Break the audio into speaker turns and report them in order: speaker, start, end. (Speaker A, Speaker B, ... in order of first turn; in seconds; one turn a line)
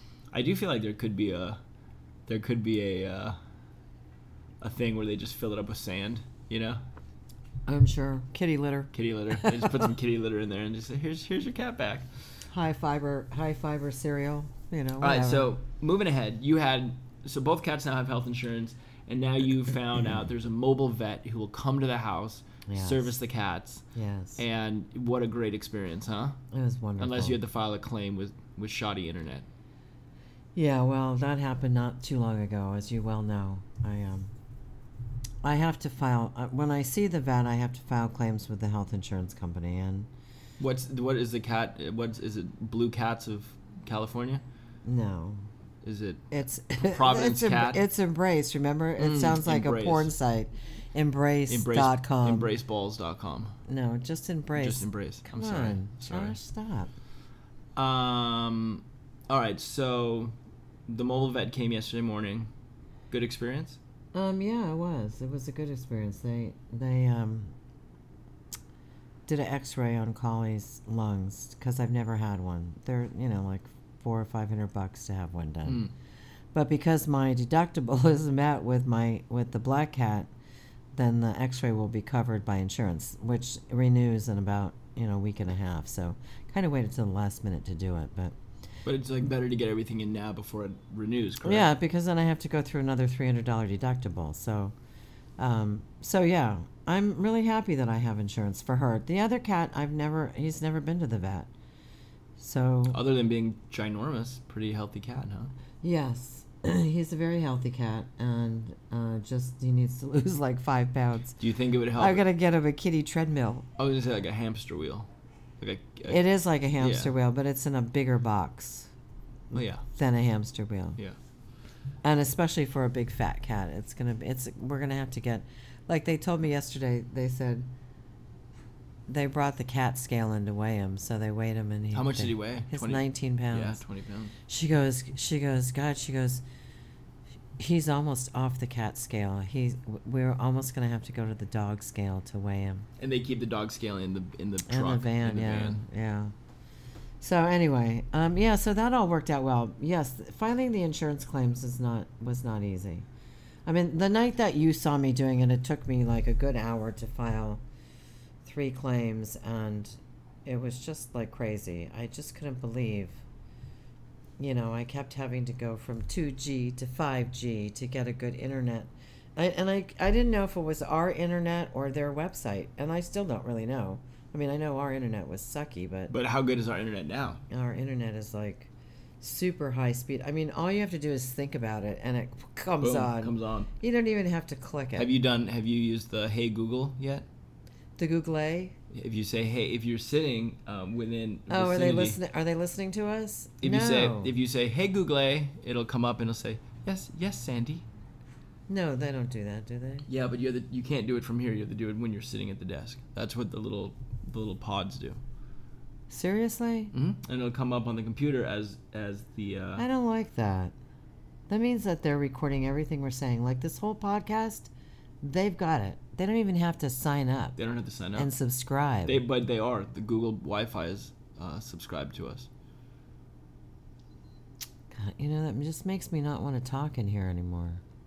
Speaker A: 0.3-1.6
Speaker A: 2.3-3.4
Speaker A: 4.6-6.8
Speaker B: 7.7-9.8
Speaker A: 8.9-12.1
Speaker B: 12.5-15.5
Speaker A: 15.0-23.8
Speaker B: 22.6-23.1
Speaker B: 23.9-24.4
Speaker A: 24.4-26.4
Speaker B: 26.5-27.4
Speaker A: 27.0-29.5
Speaker B: 30.6-34.3
Speaker B: 35.4-40.1
Speaker A: 40.6-44.4
Speaker B: 44.8-45.4
Speaker A: 45.8-46.3
Speaker B: 46.3-52.5
Speaker A: 46.8-47.8
Speaker A: 49.0-50.1
Speaker A: 51.5-53.5
Speaker B: 53.7-56.9
Speaker A: 54.6-56.4
Speaker A: 57.8-60.3
Speaker A: 60.9-62.5
Speaker A: 63.1-63.8
Speaker B: 64.1-67.5
Speaker B: 69.3-75.9
Speaker A: 75.7-75.9
Speaker B: 76.5-80.3
Speaker B: 81.0-88.3
Speaker A: 88.8-91.7
Speaker B: 91.4-94.7
Speaker B: 95.4-101.5
Speaker B: 102.4-103.0
Speaker A: 102.9-105.5
Speaker B: 105.8-111.4
Speaker A: 111.4-112.2
Speaker B: 112.0-113.7
Speaker A: 113.8-115.1
Speaker A: 115.6-116.2
Speaker B: 116.1-118.9
Speaker A: 116.8-117.1
Speaker A: 119.5-119.8
Speaker B: 119.5-121.0
Speaker B: 122.0-127.7
Speaker B: 129.1-133.8
Speaker A: 131.9-134.3
Speaker B: 134.5-136.4
Speaker B: 137.6-142.9
Speaker A: 143.0-145.8
Speaker B: 144.7-146.3
Speaker B: 147.2-153.0
Speaker B: 153.7-157.6
Speaker B: 158.4-163.2
Speaker B: 164.4-176.1
Speaker A: 176.1-177.4
Speaker B: 177.5-178.7
Speaker B: 179.2-185.1
Speaker A: 182.8-183.7
Speaker A: 185.0-187.3
Speaker B: 188.0-188.7
Speaker A: 188.9-192.2
Speaker B: 191.5-194.3
Speaker A: 193.6-197.8
Speaker B: 198.7-200.1
Speaker A: 200.1-205.2
Speaker B: 206.1-206.9
Speaker A: 206.9-209.8
Speaker B: 209.8-210.7
Speaker B: 211.5-214.7
Speaker B: 215.2-217.6
Speaker A: 217.6-218.3
Speaker B: 218.2-219.2
Speaker A: 219.1-222.5
Speaker B: 224.9-227.8